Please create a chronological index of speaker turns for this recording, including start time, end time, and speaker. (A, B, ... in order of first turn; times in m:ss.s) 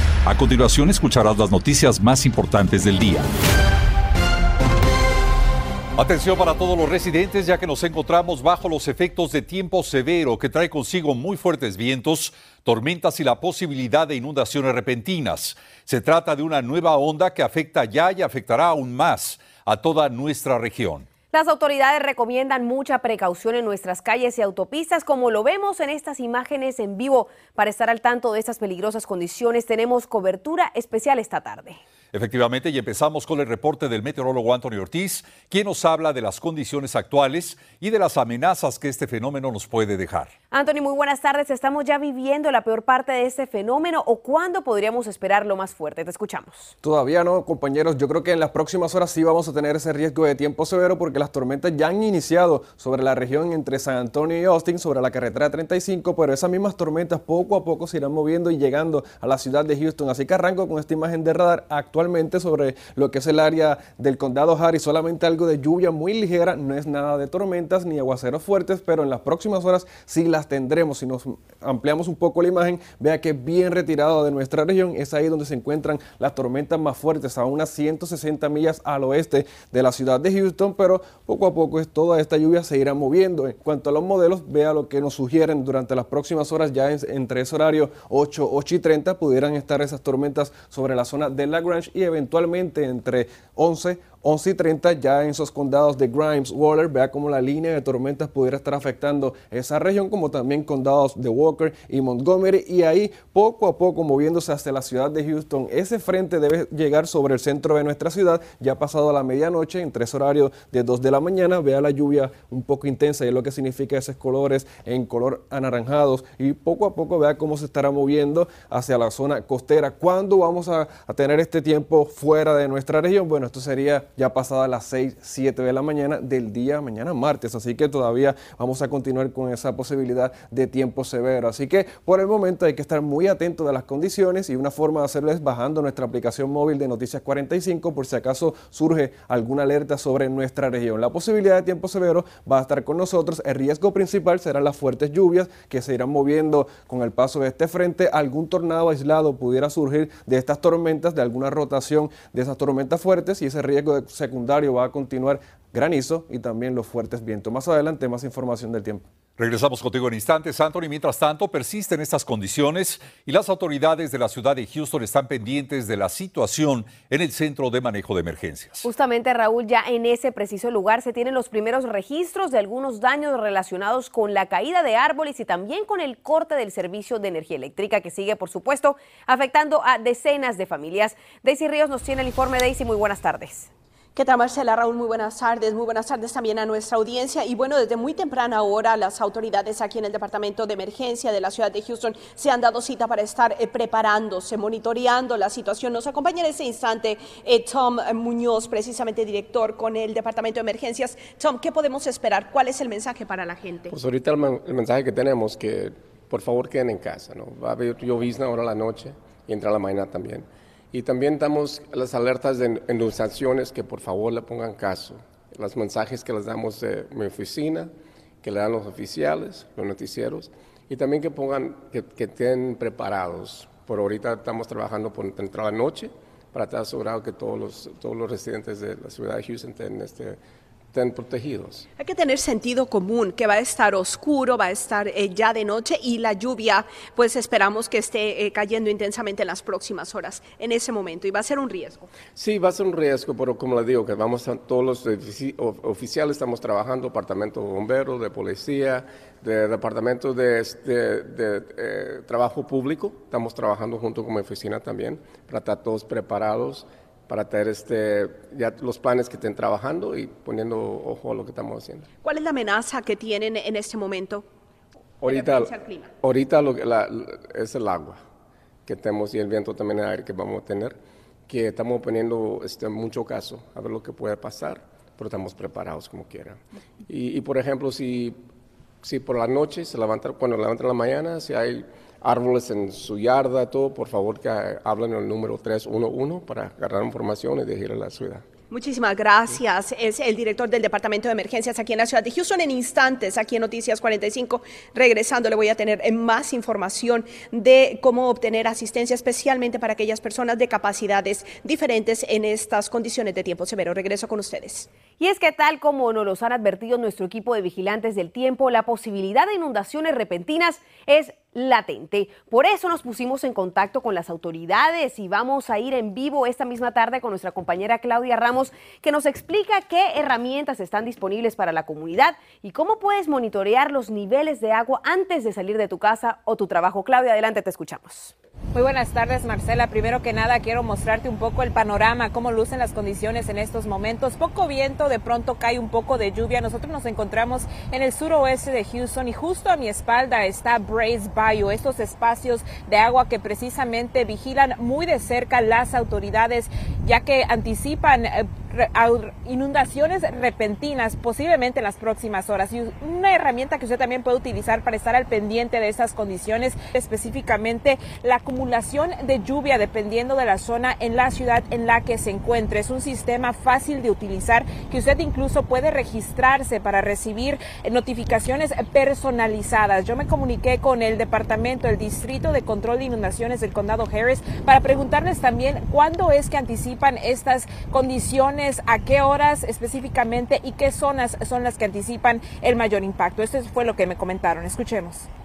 0:00.3-0:03.3 A
0:06.0-0:21.1 A
0:21.3-0:31.8 B
0:32.1-0:40.3 A
0:40.5-0:46.7 B
0:46.8-2:39.0 C
2:39.4-2:48.9 A
2:48.8-3:03.7 B
3:04.2-3:23.9 D
3:23.9-3:37.9 E
3:38.4-3:50.4 E
3:50.9-3:51.9 E
3:52.0-4:02.1 D
4:02.4-4:22.1 E
4:22.2-4:24.4 D
4:25.2-4:28.2 E
4:25.2-4:26.1 D
4:28.9-4:38.4 E
4:39.0-4:48.4 E
4:48.7-5:04.9 D
5:05.2-5:28.3 B
5:28.7-6:25.3 F